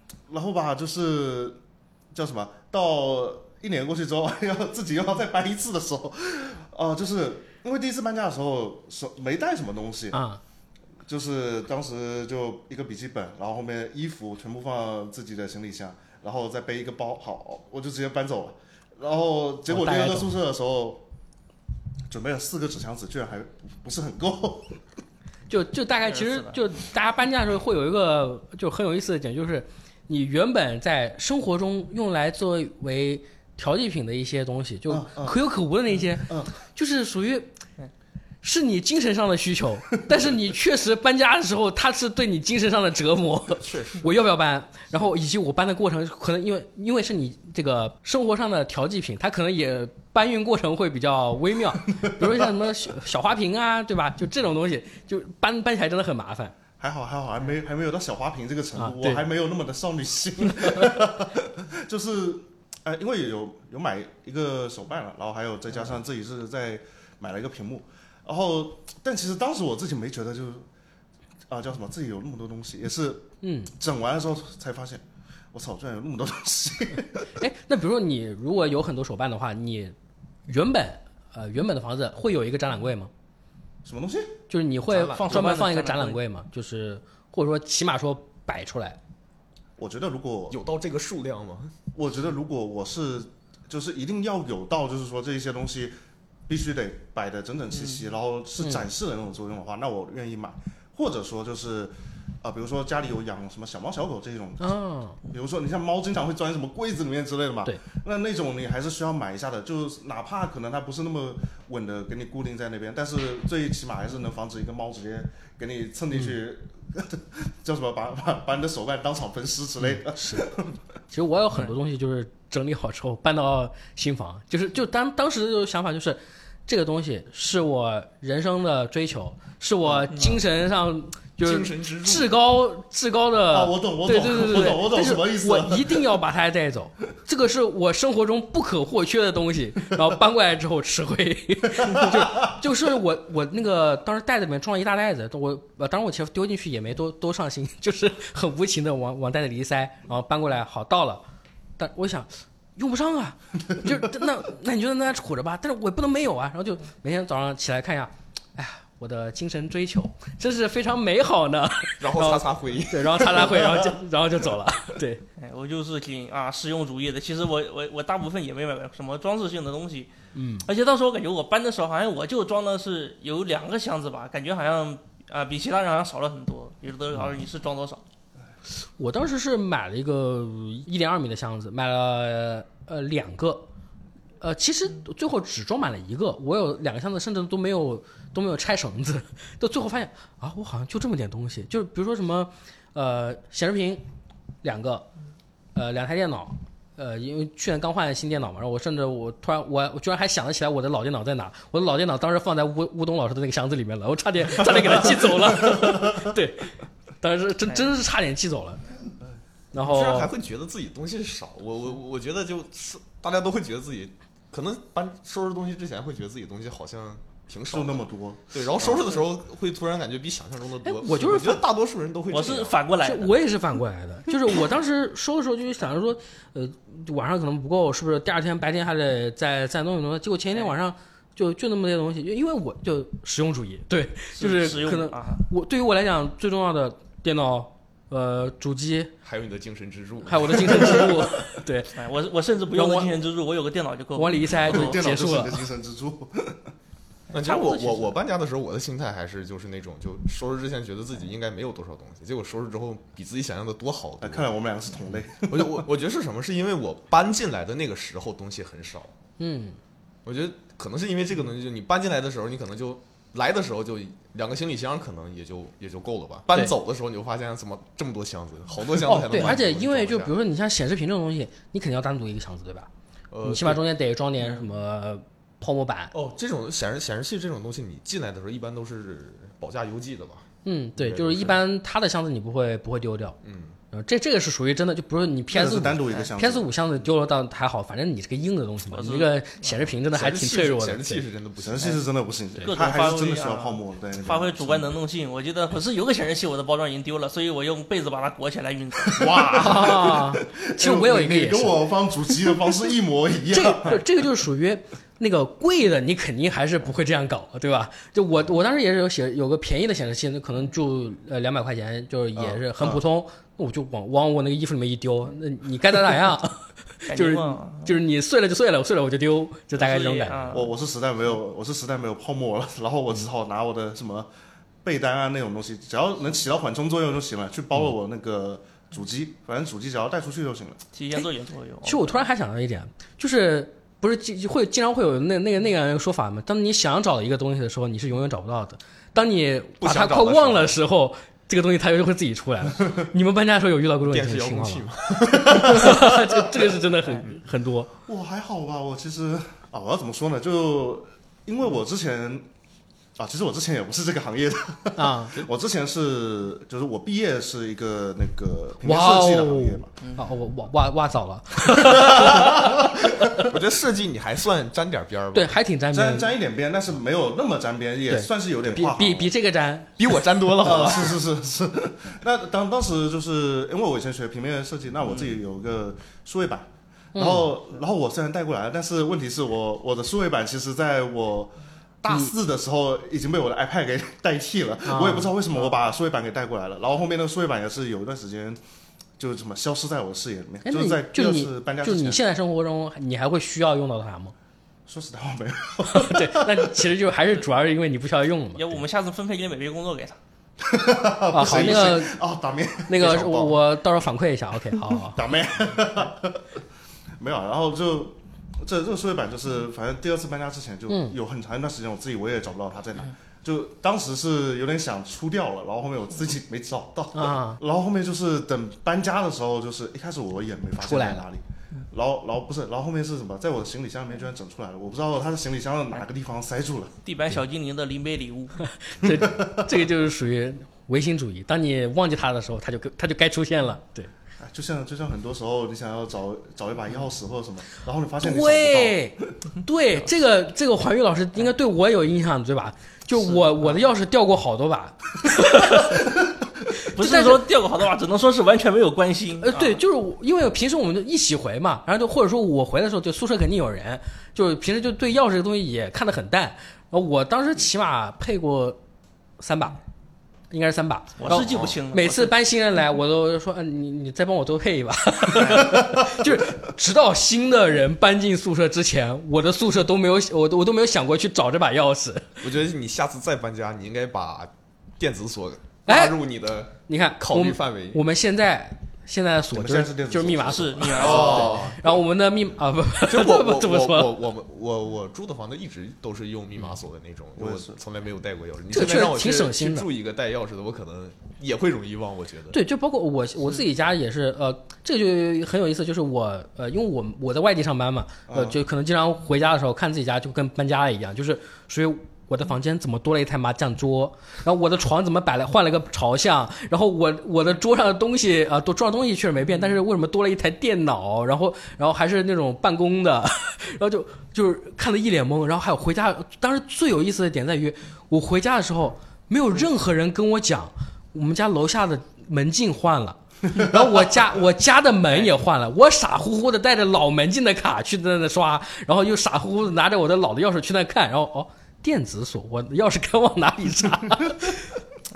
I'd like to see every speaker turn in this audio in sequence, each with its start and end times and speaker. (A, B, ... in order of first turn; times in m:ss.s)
0:00.3-0:01.6 A
0:02.1-0:10.2 A
0:10.1-0:10.4 B
0:11.0-0:21.0 A
0:19.7-0:20.3 B
0:22.1-0:24.8 A
0:25.5-0:37.5 B
0:26.1-0:26.6 C
0:34.9-0:35.4 A
0:36.1-0:36.5 A
0:38.4-0:56.5 B
0:43.6-0:44.1 D
0:52.1-0:52.4 A
0:56.8-1:10.7 A
0:58.8-0:59.2 B
1:11.5-1:17.3 A
1:13.4-1:13.7 B
1:17.4-1:19.9 B
1:20.5-1:23.1 B
1:23.8-1:24.3 A
1:24.5-1:29.0 B
1:24.9-1:25.6 D
1:25.2-1:26.2 C
1:29.8-1:30.6 A
1:30.5-1:31.7 D
1:31.9-1:35.9 A
1:36.5-1:44.7 A
1:38.6-1:38.8 B
1:44.6-1:45.2 B
1:45.2-2:00.7 A
1:59.8-2:00.5 B
2:01.1-2:31.2 B
2:09.8-2:10.3 A
2:11.4-2:12.3 D
2:13.5-2:16.0 A
2:21.8-2:22.3 A
2:31.8-2:45.2 B
2:42.0-2:43.7 D
2:45.4-2:50.1 C
2:50.3-2:50.7 B
2:50.6-2:58.0 C
2:59.0-3:03.7 B
3:04.4-3:14.0 B
3:14.6-3:15.0 B
3:15.7-3:28.8 B
3:29.7-3:30.3 B
3:29.8-3:42.8 D
3:37.7-3:39.1 A
3:40.8-3:41.6 B
3:42.3-3:43.3 C
3:43.0-3:59.1 B
3:54.4-3:55.4 C
3:59.2-4:01.1 D
4:00.2-4:01.9 B
4:01.9-4:04.9 C
4:02.7-4:03.1 B
4:04.2-4:05.6 B
4:04.6-4:06.6 A
4:07.3-4:08.2 C
4:07.3-4:14.5 D
4:14.2-4:15.9 A
4:15.5-4:19.1 D
4:19.4-4:19.8 B
4:20.2-4:30.3 D
4:29.0-4:32.9 B
4:33.3-4:33.8 D
4:33.4-4:36.1 B
4:36.1-4:41.6 D
4:40.6-4:43.4 B
4:43.4-4:43.8 D
4:43.9-4:51.2 B
4:45.5-4:46.7 A
4:48.9-4:49.8 C
4:50.1-4:52.0 D
4:51.6-4:55.0 A
4:52.6-4:59.3 C
4:59.1-5:04.0 A
4:59.6-5:01.8 B
5:03.5-5:20.6 B
5:12.4-5:13.0 A
5:17.1-5:17.9 C
5:19.7-5:20.7 C
5:20.5-5:24.3 A
5:24.8-5:30.8 A
5:30.9-5:32.2 C
5:31.8-5:44.8 B
5:39.8-5:40.7 D
5:44.0-5:46.2 D
5:45.3-5:46.0 A
5:45.4-5:47.9 B
5:48.1-5:52.5 A
5:53.2-5:59.9 A
5:55.0-5:55.4 B
5:58.8-6:03.4 B
6:01.8-6:03.0 A
6:03.4-6:05.5 D
6:05.3-6:06.3 B
6:05.9-6:09.3 A
6:08.1-6:10.0 B
6:10.0-6:11.2 D
6:10.6-6:28.6 A
6:17.1-6:17.5 B
6:24.8-6:25.3 B
6:29.2-6:32.2 A
6:30.6-6:34.3 B
6:34.9-6:36.8 A
6:35.9-6:38.8 B
6:38.5-6:40.2 C
6:40.6-6:43.5 A
6:41.3-6:42.2 B
6:42.9-6:45.2 B
6:43.0-6:43.5 D
6:44.8-6:46.6 A
6:47.2-7:06.9 A
6:50.9-6:51.2 B
6:57.1-6:57.6 B
7:00.8-7:01.2 B
7:07.0-7:08.6 C
7:08.8-7:14.1 B
7:09.0-7:09.7 A
7:14.4-7:19.2 A
7:18.2-7:25.9 B
7:26.8-7:27.4 B
7:26.9-7:29.8 C
7:29.4-7:38.8 B
7:39.4-7:39.8 B
7:40.5-7:52.4 B
7:41.2-7:42.3 C
7:41.3-7:41.8 D
7:45.3-7:45.8 C
7:45.8-7:46.5 A
7:52.4-7:58.0 D
7:55.8-7:56.2 B
7:56.8-8:04.1 B
7:59.5-8:01.8 A
8:00.4-8:01.6 C
8:01.0-8:01.7 D
8:03.0-8:12.6 D
8:07.4-8:07.8 A
8:08.7-8:09.9 B
8:12.5-8:54.7 B
8:18.3-8:18.6 A